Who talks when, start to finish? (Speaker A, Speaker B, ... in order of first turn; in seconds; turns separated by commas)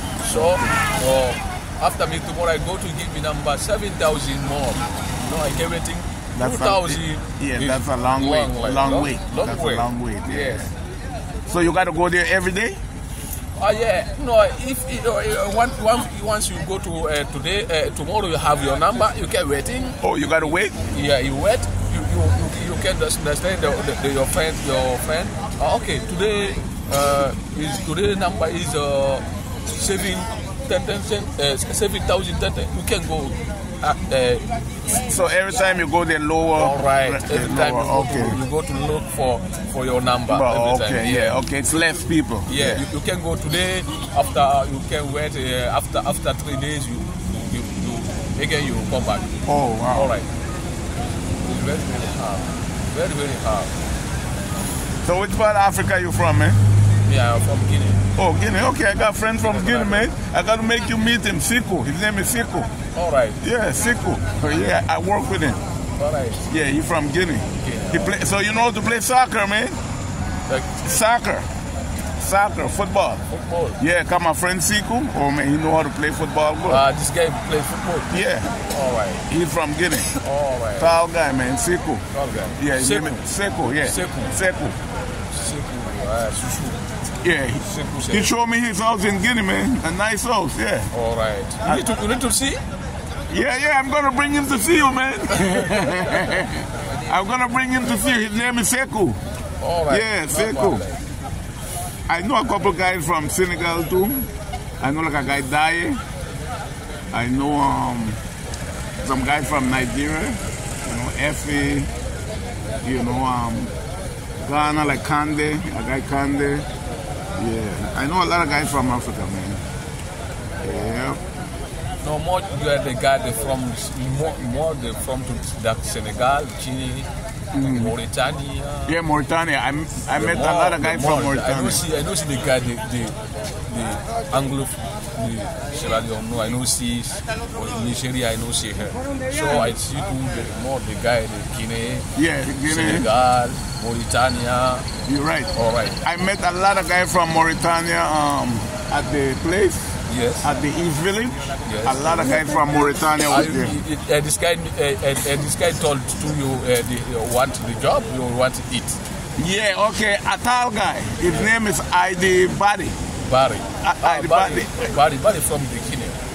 Speaker A: 0.2-10.7, Speaker B: 0.3-0.7, Speaker B: 6.4-10.6, Speaker B: 11.5-12.8, Speaker A: 13.6-20.0, Speaker B: 20.0-20.8, Speaker A: 20.9-34.5, Speaker B: 35.0-38.4, Speaker A: 36.5-41.4, Speaker B: 40.3-42.8, Speaker A: 42.5-49.3, Speaker B: 49.5-50.1, Speaker A: 49.9-50.3, Speaker A: 51.4-53.8, Speaker B: 55.0-56.6, Speaker A: 57.0-58.0, Speaker B: 58.2-62.7, Speaker A: 59.5-60.1, Speaker A: 62.9-63.4, Speaker B: 63.4-65.6, Speaker A: 66.0-66.5, Speaker B: 66.5-69.8, Speaker A: 67.5-68.2, Speaker A: 70.5-70.8, Speaker B: 70.8-71.5, Speaker B: 72.2-73.2, Speaker A: 73.3-73.8, Speaker B: 73.8-76.8, Speaker A: 76.6-79.2, Speaker B: 78.1-78.5, Speaker B: 79.3-80.1, Speaker A: 80.2-81.0, Speaker B: 80.8-82.0, Speaker A: 82.1-83.3, Speaker B: 82.6-84.8, Speaker A: 83.8-84.3, Speaker A: 85.3-86.8, Speaker B: 87.2-90.9, Speaker A: 87.6-88.3, Speaker A: 90.9-92.6, Speaker B: 93.3-99.2, Speaker A: 95.4-96.4, Speaker A: 99.6-101.0, Speaker B: 99.9-100.8, Speaker B: 102.1-106.0, Speaker B: 107.1-108.2, Speaker B: 109.0-111.9, Speaker B: 112.8-113.7, Speaker B: 114.4-116.7, Speaker B: 117.4-119.6, Speaker B: 120.6-121.2, Speaker A: 122.0-129.0, Speaker B: 127.5-128.0, Speaker B: 128.9-131.8, Speaker A: 130.1-142.1, Speaker B: 142.2-143.1, Speaker A: 142.7-144.9, Speaker B: 145.1-153.8, Speaker A: 145.5-146.0, Speaker A: 150.1-150.5, Speaker A: 151.7-152.4, Speaker A: 153.3-159.0, Speaker B: 159.4-163.0, Speaker A: 163.2-166.2, Speaker B: 163.8-164.8